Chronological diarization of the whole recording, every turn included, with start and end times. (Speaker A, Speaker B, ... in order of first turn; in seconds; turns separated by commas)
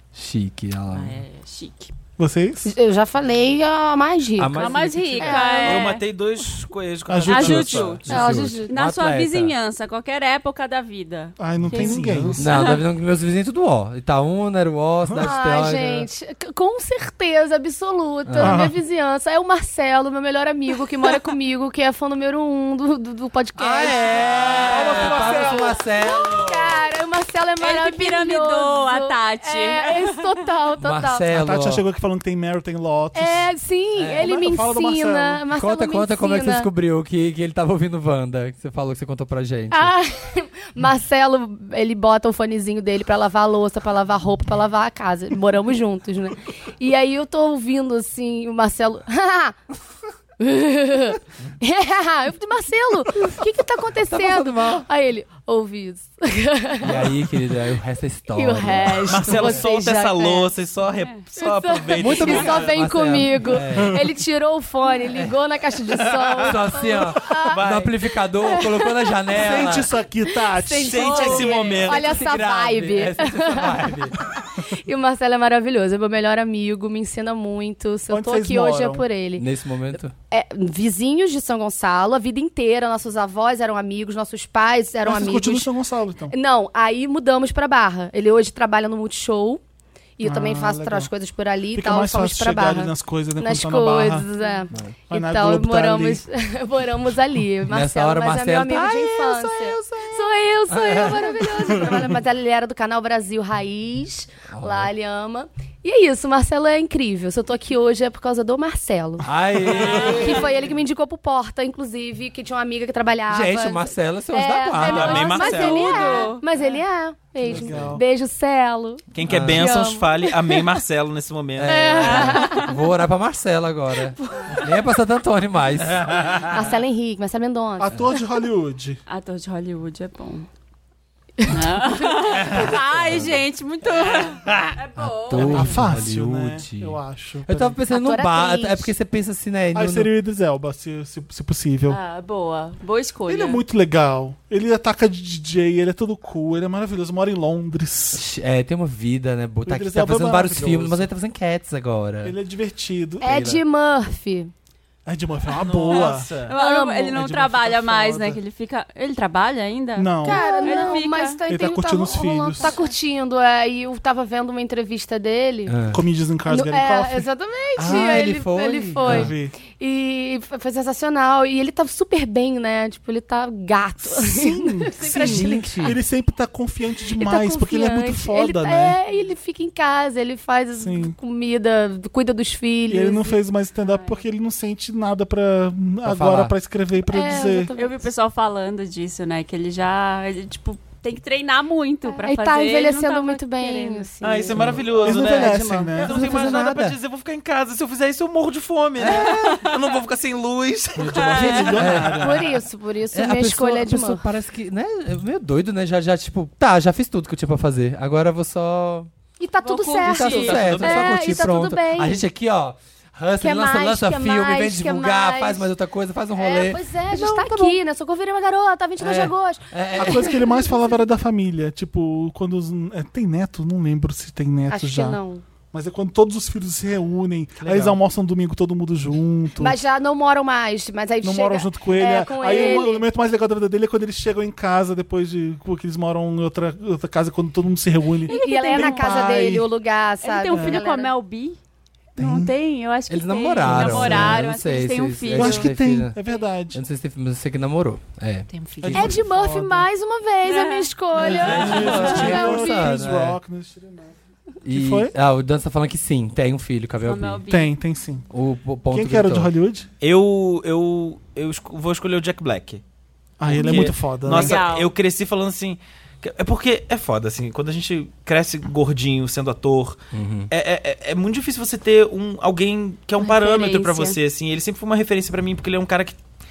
Speaker A: 0.1-1.2, Speaker B: 0.9-1.9, Speaker C: 2.2-2.7, Speaker D: 2.6-5.9, Speaker A: 4.4-5.4, Speaker B: 4.5-6.0, Speaker E: 5.5-8.0, Speaker C: 7.1-8.0, Speaker B: 7.3-8.0, Speaker A: 8.0-9.5, Speaker D: 8.1-8.7, Speaker B: 8.7-12.0, Speaker C: 11.4-12.5, Speaker E: 11.7-12.6, Speaker A: 12.4-16.1, Speaker B: 12.5-12.8, Speaker C: 15.1-15.3, Speaker D: 15.2-31.3, Speaker A: 18.3-18.6, Speaker C: 18.4-18.8, Speaker A: 23.6-26.8, Speaker C: 24.4-25.8, Speaker B: 27.6-30.2, Speaker A: 30.8-31.8, Speaker C: 31.3-33.5, Speaker D: 33.1-36.7, Speaker A: 34.0-34.3, Speaker C: 34.2-35.5, Speaker A: 35.5-39.9, Speaker D: 39.7-49.6, Speaker D: 50.4-57.3, Speaker A: 54.1-54.9, Speaker A: 56.8-59.6, Speaker D: 58.3-60.5, Speaker E: 59.1-62.8, Speaker D: 61.4-67.6, Speaker A: 62.0-64.0, Speaker E: 66.0-66.6, Speaker A: 66.4-69.9, Speaker E: 67.4-68.0, Speaker D: 68.4-69.2, Speaker C: 69.3-71.2, Speaker D: 70.3-79.5, Speaker B: 70.8-71.9, Speaker E: 70.8-72.3, Speaker A: 71.9-74.2, Speaker C: 78.1-79.1, Speaker A: 79.4-80.1, Speaker D: 80.3-85.7, Speaker C: 85.0-86.3, Speaker D: 86.3-89.6, Speaker D: 90.2-120.7, Speaker C: 90.2-91.1, Speaker C: 91.7-94.3, Speaker C: 95.1-96.2, Speaker A: 97.7-101.8, Speaker A: 104.5-104.9, Speaker A: 109.2-110.6, Speaker B: 109.8-110.1, Speaker A: 113.3-115.4, Speaker E: 114.8-116.2, Speaker B: 115.2-116.5, Speaker A: 117.5-118.0, Speaker C: 117.5-117.9, Speaker E: 117.5-117.9, Speaker E: 119.1-122.5, Speaker A: 119.2-119.7, Speaker A: 121.6-126.1, Speaker D: 121.6-122.7, Speaker B: 122.1-122.7, Speaker D: 124.2-124.6, Speaker E: 126.0-126.4, Speaker D: 126.5-128.2, Speaker C: 127.8-129.0, Speaker B: 129.1-130.5, Speaker D: 131.4-132.1, Speaker B: 131.5-135.9, Speaker A: 132.5-133.4, Speaker A: 135.0-140.1, Speaker C: 135.3-137.8, Speaker D: 137.9-138.9, Speaker C: 139.7-142.0, Speaker B: 141.9-143.6, Speaker C: 143.3-148.2, Speaker A: 148.1-152.3, Speaker C: 149.7-151.1, Speaker C: 152.2-153.6, Speaker D: 153.2-154.5, Speaker A: 153.3-153.6, Speaker C: 155.1-156.3, Speaker E: 155.6-156.6, Speaker B: 155.9-161.4, Speaker D: 156.5-157.1, Speaker C: 157.1-158.4, Speaker C: 160.0-160.9, Speaker D: 160.2-165.8, Speaker C: 161.5-162.8, Speaker B: 162.6-162.9, Speaker A: 165.7-166.0, Speaker C: 165.9-167.3, Speaker D: 166.5-176.0, Speaker A: 167.8-169.3, Speaker C: 169.0-169.5, Speaker C: 174.0-179.0, Speaker A: 175.4-175.9, Speaker D: 177.2-183.4, Speaker C: 180.8-181.2, Speaker C: 182.9-187.7, Speaker B: 183.9-184.2, Speaker A: 186.0-186.5, Speaker D: 187.1-188.0, Speaker B: 187.8-194.1, Speaker D: 192.1-195.9, Speaker E: 194.2-202.0, Speaker C: 195.0-196.3, Speaker A: 196.0-197.0, Speaker A: 199.0-199.6, Speaker B: 199.1-199.9, Speaker C: 201.0-202.5, Speaker B: 201.1-201.8, Speaker A: 201.1-202.4, Speaker D: 202.1-204.3, Speaker A: 203.1-209.1, Speaker D: 209.4-212.3, Speaker B: 209.6-210.7, Speaker A: 210.0-216.8, Speaker E: 210.2-211.4, Speaker D: 213.4-215.7, Speaker D: 216.4-220.5, Speaker B: 217.2-217.7, Speaker A: 219.0-220.4, Speaker C: 219.9-225.2, Speaker D: 224.7-225.4, Speaker C: 225.7-229.8, Speaker E: 227.6-228.0, Speaker D: 229.6-233.1, Speaker C: 231.2-239.7, Speaker B: 232.5-232.9, Speaker B: 238.3-239.4, Speaker D: 238.3-241.1, Speaker B: 240.2-241.6, Speaker C: 240.5-240.8, Speaker B: 242.2-245.7, Speaker C: 242.2-242.5, Speaker A: 243.1-246.2, Speaker C: 243.7-244.5, Speaker C: 245.3-246.8, Speaker A: 246.7-249.2, Speaker B: 248.5-249.1, Speaker C: 248.8-249.9, Speaker D: 248.9-252.9, Speaker B: 250.4-252.2, Speaker C: 251.2-254.2, Speaker A: 251.2-253.4, Speaker A: 254.6-257.4, Speaker C: 254.7-255.1, Speaker B: 257.0-257.7, Speaker C: 257.5-258.3, Speaker A: 258.3-259.5, Speaker C: 258.9-259.9, Speaker E: 260.0-262.8, Speaker C: 263.4-264.6, Speaker E: 263.5-276.2, Speaker B: 264.3-264.9, Speaker A: 270.1-270.5, Speaker B: 273.2-274.2